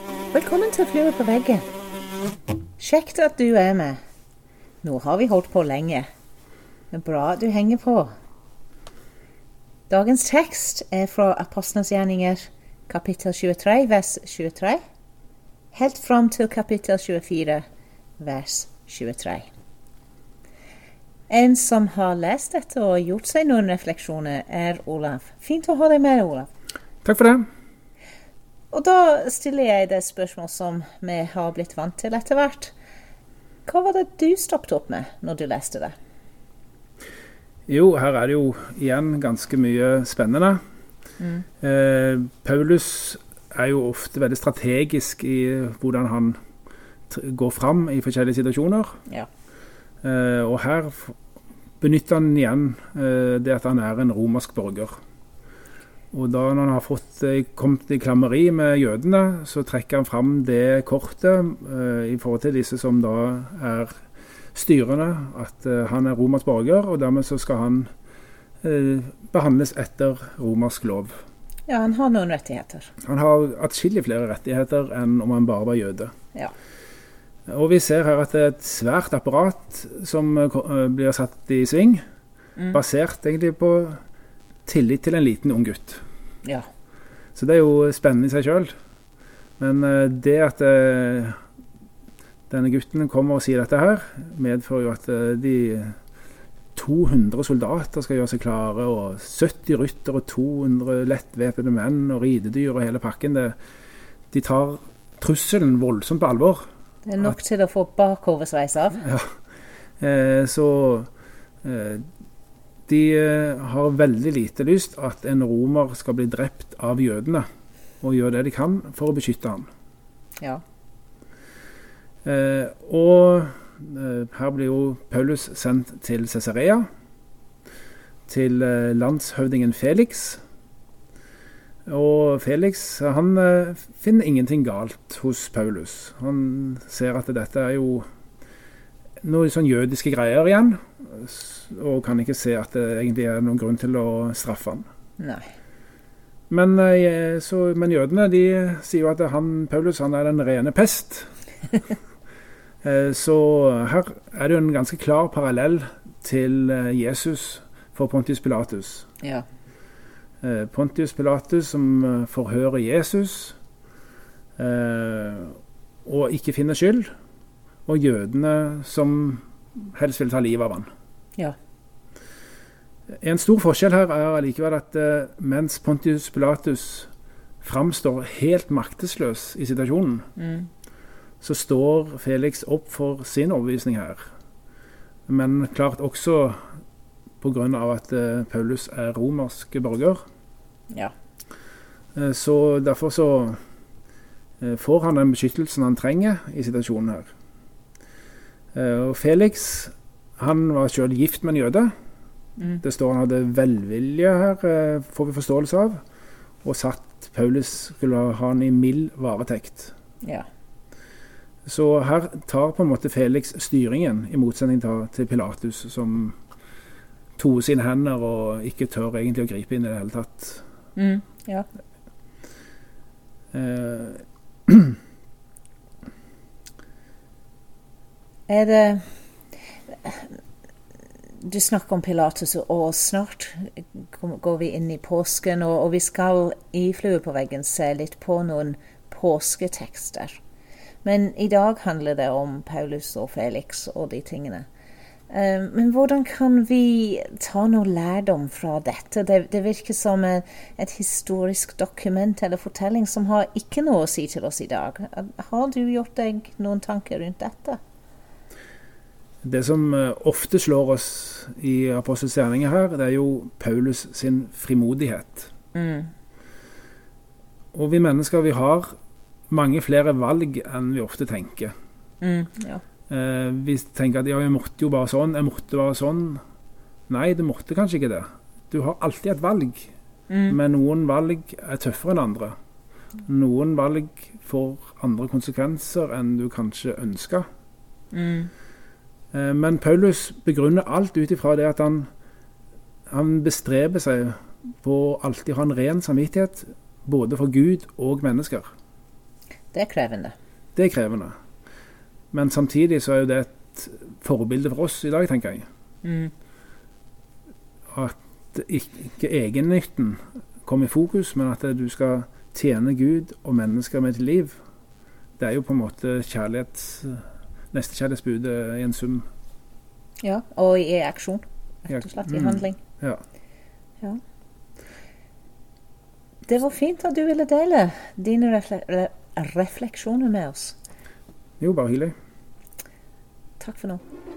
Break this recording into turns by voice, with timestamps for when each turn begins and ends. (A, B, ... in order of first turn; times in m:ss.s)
0:00.3-0:01.6 A
0:02.8-0:04.0 A
0:04.8-0:06.0 A
0:06.9-0:08.1 A
0:09.9-0:14.8 A
0:15.7-0:17.6 A
0:18.2-0:19.5 A
0:21.3-0:26.5 A
0:27.0-0:27.5 B
0:28.7-0:32.7 A
0:33.6-0:35.9 A
0:37.7-0:40.6 B
0:41.2-0:41.4 A
0:41.6-0:46.4 B
0:47.1-0:49.0 B
0:50.0-0:51.1 B
0:51.8-0:55.0 B
0:56.1-1:03.9 B
1:04.5-1:07.9 B
1:08.6-1:11.2 B
1:11.7-1:12.9 A
1:13.0-1:16.1 B
1:17.5-1:22.0 B
1:22.7-1:24.0 B
1:24.6-1:26.0 B
1:27.3-1:28.7 B
1:29.6-1:31.4 B
1:32.5-1:35.9 B
1:36.7-1:43.5 B
1:44.3-1:46.6 B
1:47.0-1:49.0 A
1:49.0-1:49.3 B
1:50.0-1:51.1 B
1:51.6-1:52.0 B
1:52.9-1:57.4 B
1:58.0-1:59.7 B
2:02.2-2:06.9 B
2:08.3-2:10.4 B
2:11.8-2:18.0 B
2:19.2-2:24.8 B
2:25.2-2:25.4 A
2:26.5-2:31.3 B
2:32.8-2:39.1 B
2:40.4-2:43.6 B
2:44.6-2:47.1 B
2:47.9-2:50.9 B
2:53.2-2:57.1 B
2:57.6-3:00.3 B
3:00.4-3:00.7 A
3:01.4-3:04.3 B
3:05.3-3:06.6 B
3:07.4-3:10.2 B
3:12.1-3:13.6 B
3:14.6-3:17.3 B
3:18.7-3:21.9 B
3:22.6-3:22.8 A
3:22.8-3:26.0 B
3:26.6-3:29.9 B
3:31.6-3:36.4 B
3:37.4-3:40.6 B
3:41.0-3:41.6 A
3:43.5-3:44.9 B
3:48.5-3:49.0 A
3:49.9-3:50.3 A
3:51.4-4:00.4 A
4:01.0-4:04.7 A
4:05.3-4:17.8 A
4:19.4-4:25.5 B
4:25.7-4:26.1 A
4:27.7-4:28.9 B
4:29.5-4:31.7 B
4:32.2-4:32.8 A
4:33.1-4:36.4 B
4:37.1-4:39.9 B
4:40.3-4:40.6 A
4:40.5-4:42.5 B
4:43.2-4:47.4 B
4:48.1-4:48.5 A
4:49.3-4:52.1 B
4:53.1-4:58.7 B
4:59.7-5:00.3 A
5:00.8-5:01.3 B
5:02.3-5:05.6 B
5:06.0-5:06.3 A
5:07.9-5:14.6 B
5:15.4-5:19.2 B
5:20.2-5:22.8 A
5:21.9-5:23.2 B
5:26.5-5:30.7 A
5:31.6-5:32.1 B
5:33.6-5:34.0 A